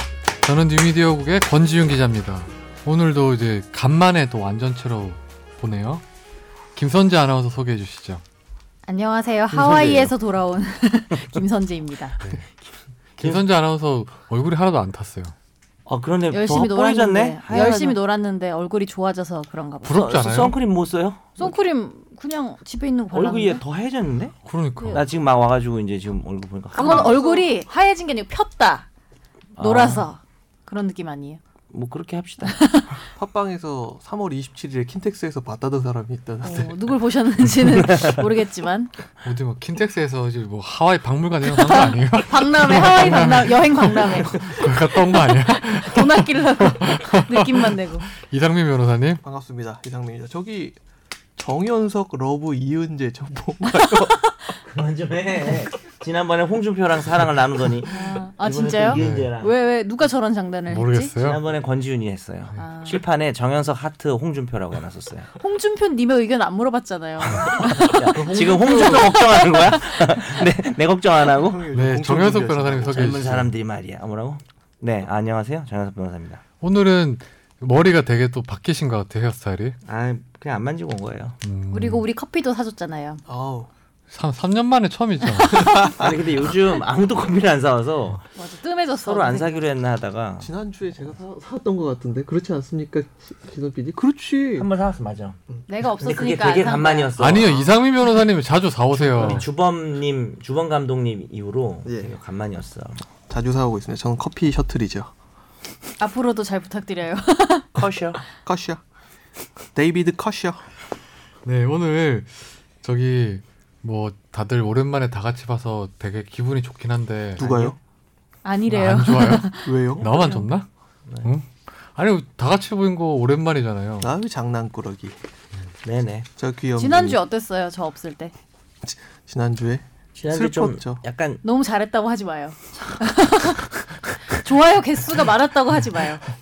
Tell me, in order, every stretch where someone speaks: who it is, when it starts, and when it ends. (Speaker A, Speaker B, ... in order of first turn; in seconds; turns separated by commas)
Speaker A: 0.4-6.0, Speaker A: 6.8-8.2, Speaker B: 8.8-12.2, Speaker C: 9.5-10.1, Speaker A: 13.2-15.3, Speaker C: 15.8-18.0, Speaker B: 16.3-20.1, Speaker A: 19.8-20.6, Speaker C: 19.9-21.5, Speaker B: 21.4-23.6, Speaker C: 23.1-27.3, Speaker A: 24.4-25.0, Speaker B: 26.7-28.9, Speaker C: 29.6-30.1, Speaker B: 29.6-31.4, Speaker C: 31.7-32.7, Speaker B: 32.4-33.0, Speaker D: 33.1-36.8, Speaker B: 36.4-38.9, Speaker A: 39.2-49.2, Speaker B: 41.5-48.1, Speaker D: 49.2-50.8, Speaker D: 51.4-54.0, Speaker B: 53.8-54.1, Speaker C: 54.6-59.5, Speaker B: 57.9-61.1, Speaker A: 58.8-59.3, Speaker A: 60.7-61.4, Speaker C: 61.2-65.3, Speaker B: 62.6-63.0, Speaker B: 65.4-68.2, Speaker C: 67.3-71.6, Speaker A: 68.1-69.4, Speaker D: 71.3-73.3, Speaker A: 71.7-73.5, Speaker C: 72.9-76.4, Speaker A: 76.6-79.8, Speaker C: 79.8-81.3, Speaker A: 81.4-82.0, Speaker B: 81.7-83.2, Speaker D: 83.2-83.7, Speaker A: 84.1-86.0, Speaker B: 85.5-85.9, Speaker C: 86.0-88.2, Speaker B: 88.3-89.6, Speaker C: 89.0-90.5, Speaker D: 90.4-94.7, Speaker C: 94.5-95.4, Speaker B: 95.7-97.1, Speaker C: 96.0-97.7, Speaker A: 97.2-99.5, Speaker D: 99.0-99.4, Speaker C: 99.1-103.0, Speaker D: 101.8-102.2, Speaker D: 103.3-105.1, Speaker B: 106.0-107.7, Speaker C: 107.8-108.2, Speaker D: 108.4-108.8, Speaker D: 109.7-110.6, Speaker A: 111.4-117.7, Speaker D: 117.4-117.8, Speaker B: 118.4-120.5, Speaker A: 118.7-120.7, Speaker D: 119.6-120.1, Speaker A: 121.2-124.1, Speaker D: 124.0-125.2, Speaker C: 125.8-126.3, Speaker D: 126.4-127.2, Speaker B: 126.8-128.3, Speaker D: 128.8-131.0, Speaker C: 130.2-131.4, Speaker B: 131.4-133.7, Speaker B: 134.4-136.2